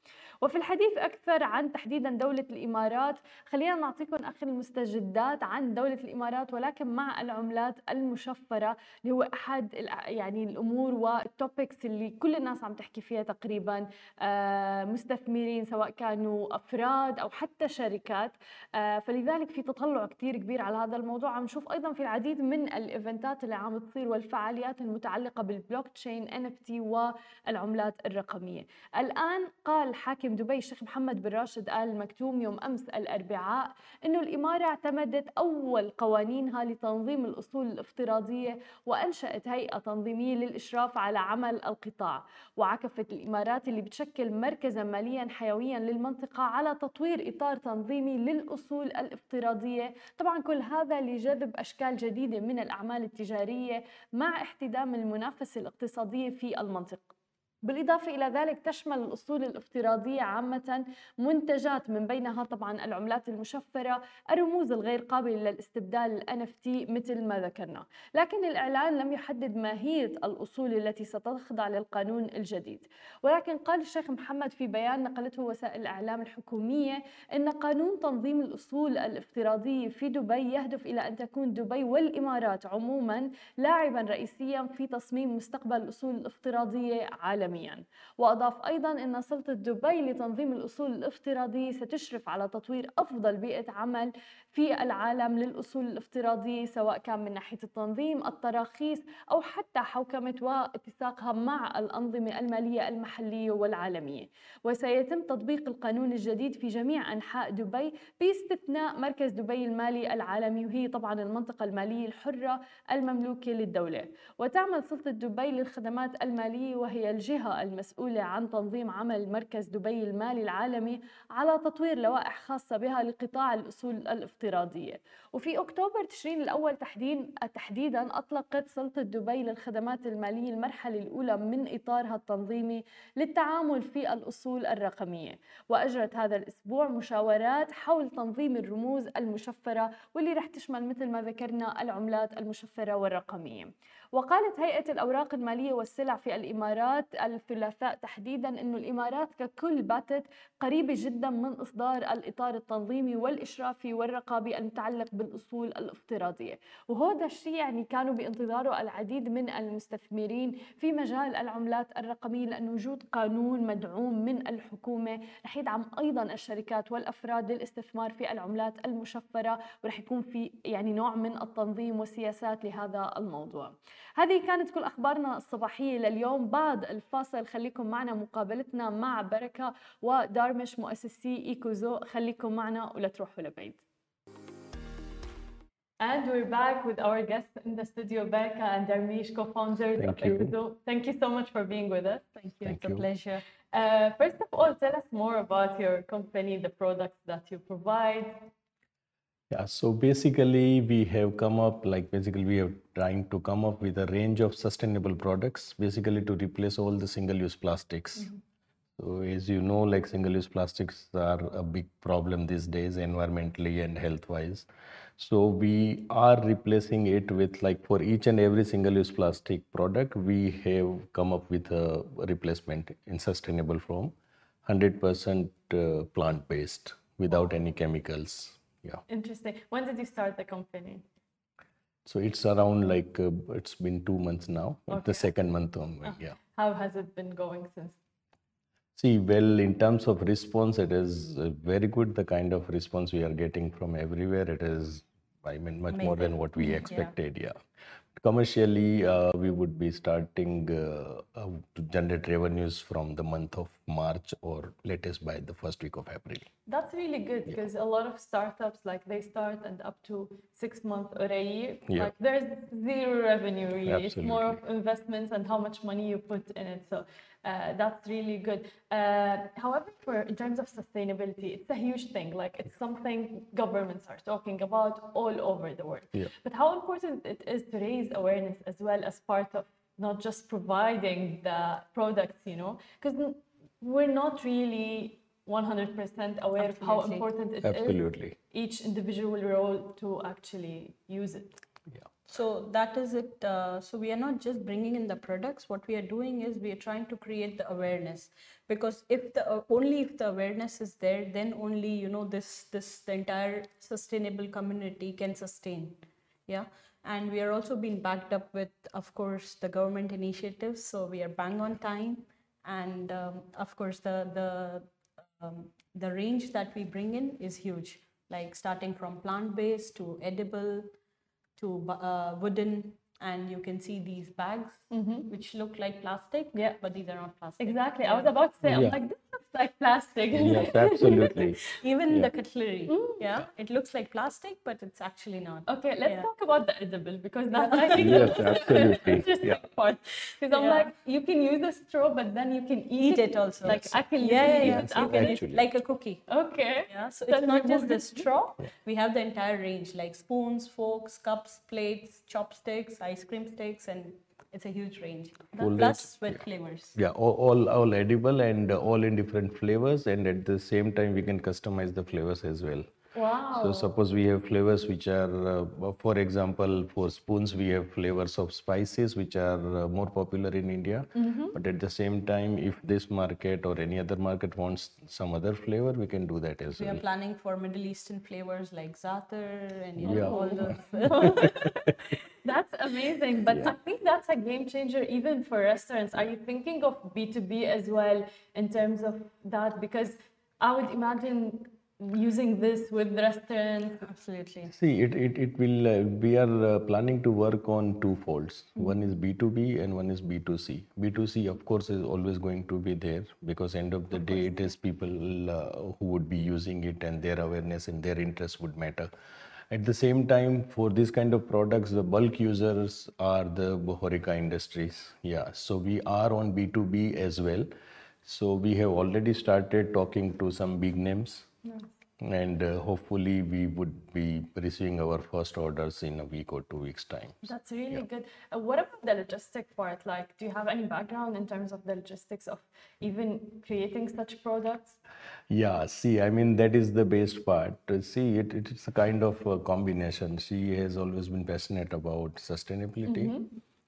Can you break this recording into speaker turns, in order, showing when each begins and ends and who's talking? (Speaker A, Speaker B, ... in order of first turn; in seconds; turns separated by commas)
Speaker A: 0.4-57.1, Speaker A: 57.6-183.8, Speaker A: 186.0-192.2, Speaker B: 189.9-190.5, Speaker C: 192.3-193.4, Speaker B: 192.6-193.0, Speaker A: 193.7-198.5, Speaker B: 199.5-208.3, Speaker B: 209.0-214.7, Speaker B: 215.2-229.0, Speaker A: 229.1-231.0, Speaker B: 232.1-236.4, Speaker A: 234.9-235.3, Speaker A: 236.0-238.0, Speaker B: 238.9-247.6, Speaker C: 245.9-247.1, Speaker B: 248.2-256.5, Speaker A: 256.7-291.5, Speaker B: 261.9-262.1, Speaker B: 263.9-264.6, Speaker C: 286.6-287.3, Speaker B: 287.6-288.4, Speaker C: 292.2-320.9, Speaker C: 321.6-328.3, Speaker A: 324.9-325.3, Speaker A: 327.6-331.6, Speaker B: 328.6-329.0, Speaker B: 330.4-332.3, Speaker C: 331.8-336.3, Speaker A: 332.9-333.2, Speaker A: 335.7-345.5, Speaker C: 337.6-338.6, Speaker B: 337.9-339.6, Speaker C: 340.5-340.9, Speaker C: 343.0-346.3, Speaker B: 343.6-345.6, Speaker A: 346.3-348.3, Speaker C: 346.9-356.9, Speaker B: 355.6-356.4, Speaker B: 356.9-362.9, Speaker A: 363.1-363.9, Speaker B: 363.5-377.0, Speaker A: 371.2-371.5, Speaker C: 376.8-381.6, Speaker B: 380.0-380.8, Speaker A: 380.1-394.1, Speaker C: 394.0-394.7, Speaker B: 394.7-409.1, Speaker B: 409.7-417.7, Speaker B: 418.2-421.5, Speaker B: 422.2-428.0, Speaker A: 427.4-435.0, Speaker B: 435.5-443.4, Speaker A: 443.1-443.5